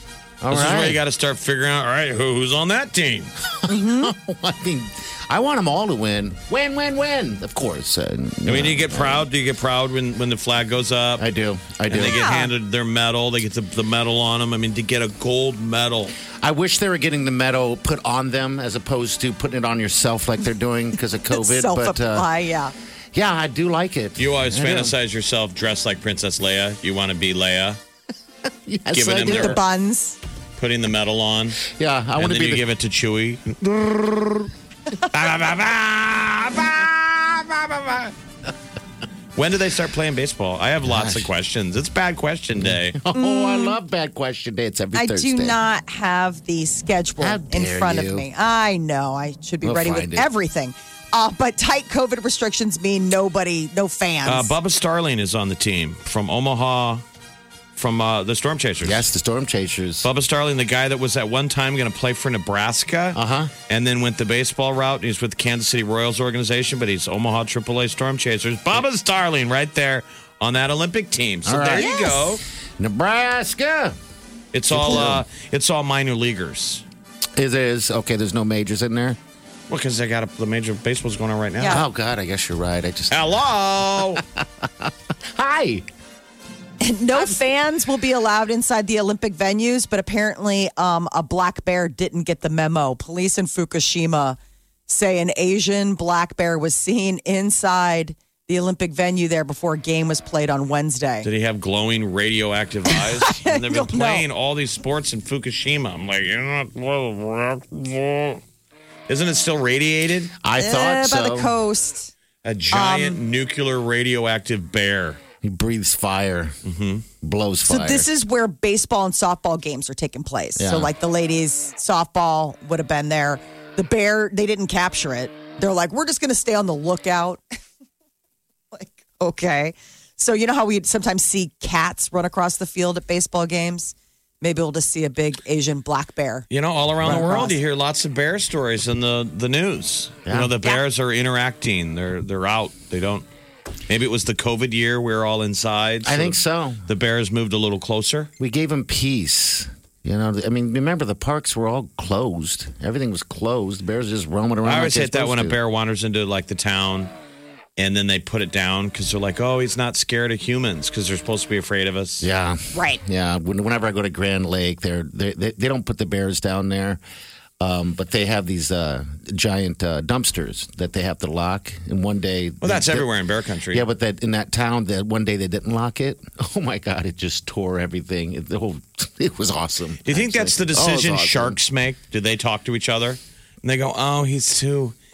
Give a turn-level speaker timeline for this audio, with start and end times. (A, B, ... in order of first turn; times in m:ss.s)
0:00.4-0:01.0 A
0:00.5-0:03.3 B
0:03.6-0:09.3 A
0:03.7-0:04.1 C
0:08.5-0:11.2 B
0:11.2-0:12.3 A
0:11.9-0:16.1 B
0:11.9-0:12.5 C
0:16.3-0:22.3 A
0:21.3-0:22.7 C
0:23.1-0:24.9 A
0:24.2-0:27.8 B
0:28.6-0:29.6 A
0:28.9-0:29.6 B
0:29.2-0:30.2 C
0:30.6-0:31.6 B
0:31.6-0:32.6 A
0:32.2-0:34.5 B
0:35.1-0:38.1 B
0:36.1-0:37.6 A
0:39.4-0:43.0 B
0:40.8-0:41.3 A
0:42.5-0:45.6 A
0:43.1-0:43.8 C
0:44.9-0:54.5 C
0:47.2-0:48.3 A
0:49.6-0:50.3 A
0:54.2-0:57.0 B
0:57.8-0:59.0 B
0:58.8-1:00.1 A
1:00.0-1:03.2 B
1:03.1-1:03.5 A
1:03.7-1:12.4 B
1:11.4-1:12.3 A
1:11.8-1:12.2 C
1:12.8-1:14.0 A
1:14.5-1:16.8 B
1:14.7-1:15.2 A
1:17.4-1:19.2 A
1:19.7-1:21.8 B
1:21.7-1:23.4 A
1:23.1-1:24.2 B
1:24.0-1:25.8 A
1:26.8-1:41.3 C
1:41.2-1:48.4 B
1:42.9-1:44.2 C
1:49.1-1:50.3 B
1:50.4-1:51.5 A
1:50.6-1:52.1 C
1:52.4-1:55.2 B
1:52.7-1:53.2 C
1:55.4-1:56.5 A
1:56.6-1:57.0 B
1:57.2-1:58.1 A
1:57.7-2:07.4 C
2:00.6-2:00.9 A
2:08.7-2:16.5 C
2:16.5-2:23.2 B
2:17.0-2:17.4 A
2:17.0-2:17.6 C
2:20.2-2:20.6 A
2:23.9-2:28.3 B
2:26.0-2:26.8 A
2:28.4-2:35.6 A
2:34.6-2:37.1 B
2:37.8-2:42.3 B
2:42.2-2:47.0 A
2:42.7-2:43.0 C
2:47.6-2:53.1 A
2:52.6-2:53.8 B
2:53.7-3:01.6 A
3:00.0-3:04.9 B